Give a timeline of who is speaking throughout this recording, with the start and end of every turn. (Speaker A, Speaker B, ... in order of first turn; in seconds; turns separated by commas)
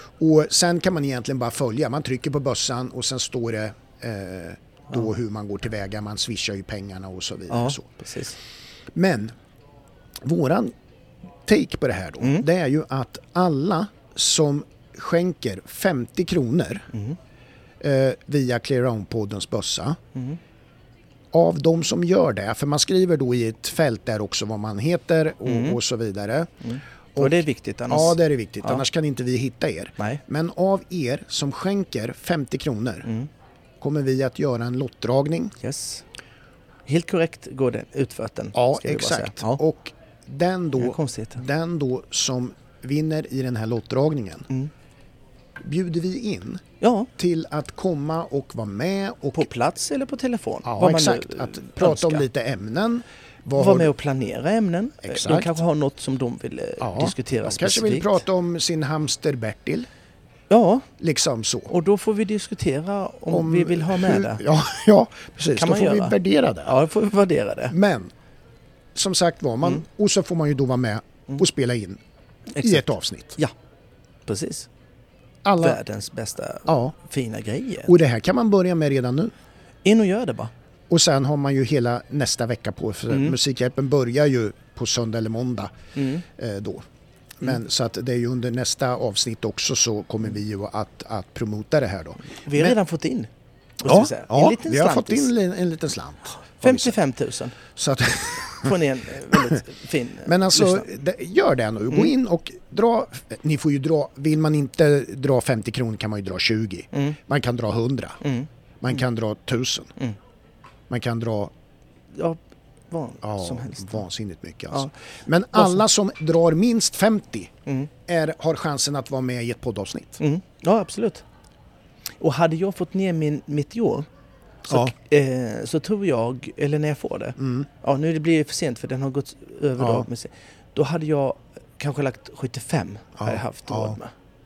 Speaker A: 0.2-7.9, Speaker B: 7.5-8.4, Speaker A: 8.9-9.3, Speaker A: 10.2-10.7, Speaker A: 11.4-16.9, Speaker B: 16.9-17.2, Speaker A: 17.8-20.0, Speaker A: 21.3-26.5, Speaker B: 25.4-25.8, Speaker B: 26.6-28.8, Speaker A: 27.1-33.1, Speaker B: 33.0-33.3, Speaker A: 33.8-35.5, Speaker B: 35.6-36.0, Speaker B: 36.9-39.6, Speaker A: 38.5-44.5, Speaker B: 40.8-41.4, Speaker A: 45.6-46.6, Speaker B: 46.8-47.1, Speaker A: 47.2-49.5, Speaker B: 49.3-52.2, Speaker A: 50.6-53.9, Speaker B: 53.6-58.2, Speaker A: 55.0-55.6, Speaker A: 56.8-59.9, Speaker B: 60.5-60.9, Speaker A: 61.0-61.7, Speaker B: 61.7-64.4, Speaker A: 63.3-66.8, Speaker B: 65.5-67.7, Speaker A: 67.7-68.1, Speaker A: 68.9-72.0, Speaker B: 72.5-73.5, Speaker A: 72.6-73.4, Speaker B: 74.2-74.7, Speaker A: 75.4-75.8, Speaker B: 75.6-77.9, Speaker A: 76.7-76.9, Speaker A: 77.8-79.3, Speaker B: 79.8-80.5, Speaker A: 80.9-85.7, Speaker B: 83.1-83.4, Speaker B: 86.0-86.2, Speaker A: 86.3-86.8, Speaker A: 87.4-92.8, Speaker B: 92.4-93.3, Speaker B: 93.8-95.3, Speaker A: 93.8-97.0, Speaker B: 96.5-97.6, Speaker A: 97.7-99.6, Speaker B: 98.6-100.9, Speaker A: 100.2-108.2, Speaker B: 106.9-107.2, Speaker B: 108.2-108.5, Speaker A: 108.8-109.9, Speaker A: 110.9-111.5, Speaker B: 112.1-112.4, Speaker B: 112.9-114.0, Speaker A: 113.2-117.5, Speaker B: 115.5-115.8, Speaker A: 118.0-120.2, Speaker B: 120.2-121.2, Speaker B: 122.2-124.1, Speaker B: 124.7-134.1, Speaker A: 127.4-127.7, Speaker A: 129.8-130.1, Speaker A: 133.2-134.0